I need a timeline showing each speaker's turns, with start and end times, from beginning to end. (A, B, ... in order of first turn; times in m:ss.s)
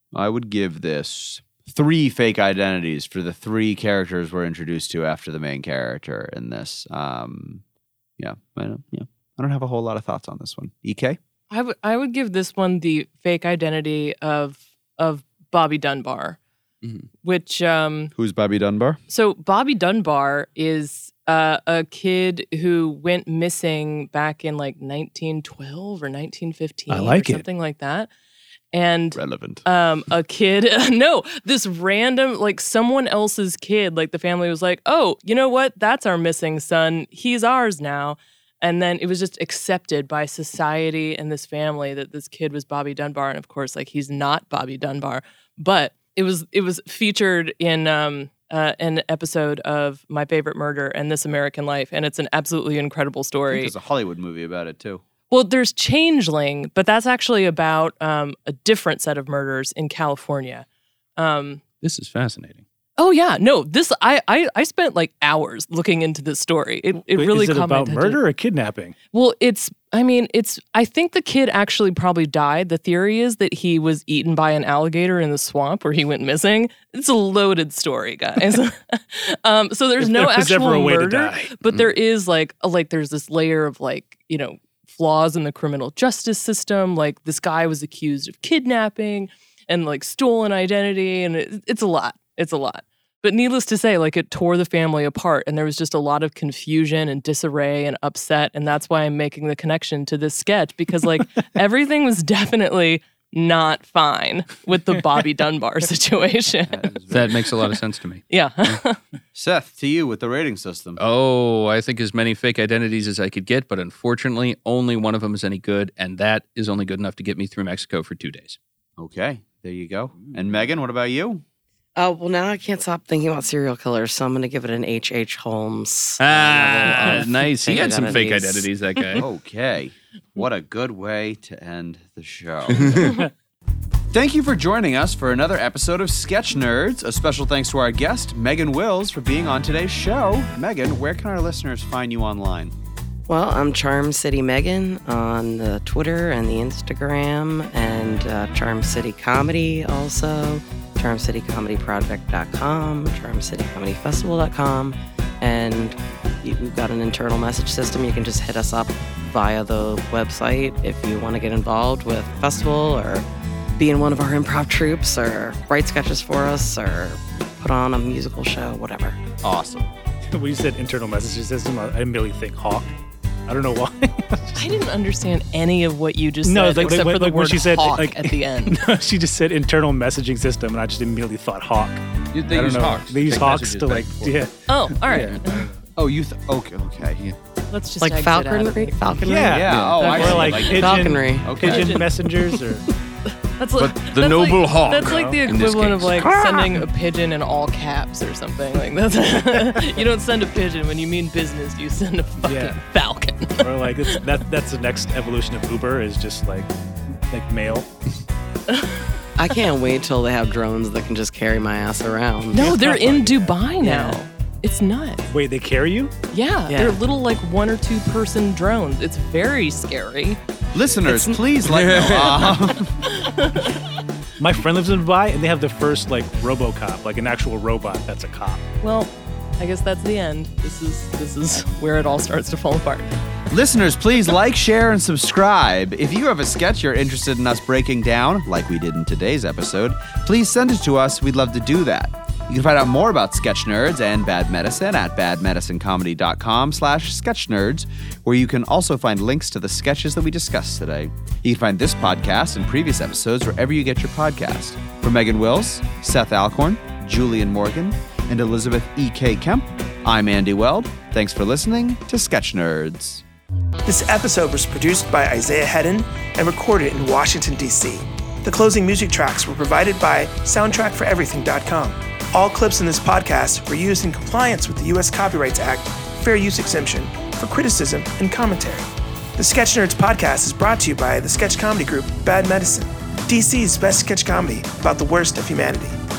0:00.1-0:07.6 A
0:08.2-0:11.2 A
0:11.5-0:16.4 B
0:16.8-0:17.1 C
0:17.2-0:18.1 B
0:18.1-0:19.0 A
0:19.1-0:28.1 B
0:26.9-0:27.4 D
0:28.7-0:53.7 B
0:29.1-0:29.6 A
0:53.5-0:55.0 A
0:55.3-1:00.6 B
1:01.2-1:01.6 B
1:01.8-1:02.6 C
1:03.0-1:08.2 B
1:07.1-1:09.0 D
1:09.1-1:46.8 B
1:20.0-1:21.6 D
1:46.7-1:47.4 A
1:47.1-1:48.2 C
1:48.3-1:49.0 B
1:49.3-1:51.0 A
1:51.0-1:58.6 C
1:59.0-2:01.4 A
2:02.0-2:08.7 E
2:06.2-2:09.2 C
2:09.2-2:13.2 A
2:12.8-2:13.1 C
2:14.1-2:22.7 A
2:23.3-2:43.2 E
2:43.8-2:49.2 E
2:49.4-2:49.9 A
2:50.3-2:52.9 D
2:53.5-2:54.6 D
2:54.5-2:58.8 B
2:56.4-3:05.7 D
3:02.3-3:04.4 C
3:04.7-3:05.7 B
3:05.1-3:05.4 C
3:06.0-3:07.2 A
3:07.7-3:09.0 B
3:08.0-3:11.6 E
3:09.2-3:12.9 D
3:09.2-3:12.0 A
3:09.7-3:10.3 C
3:11.6-3:12.1 B
3:13.3-3:24.2 B
3:13.8-3:16.8 C
3:15.0-3:15.4 D
3:22.4-3:22.8 D
3:23.6-3:27.9 D
3:28.7-3:29.0 B
3:29.4-3:32.8 E
3:32.5-3:35.2 B
3:32.5-3:33.5 D
3:33.8-3:34.2 E
3:35.3-3:36.1 D
3:36.3-3:40.4 B
3:36.7-3:37.0 E
3:40.7-3:42.9 A
3:41.0-3:41.4 E
3:41.7-3:42.7 C
3:43.0-3:43.8 B
3:44.4-3:48.6 D
3:48.8-3:53.1 B
3:53.5-4:23.2 A
4:23.8-4:46.0 F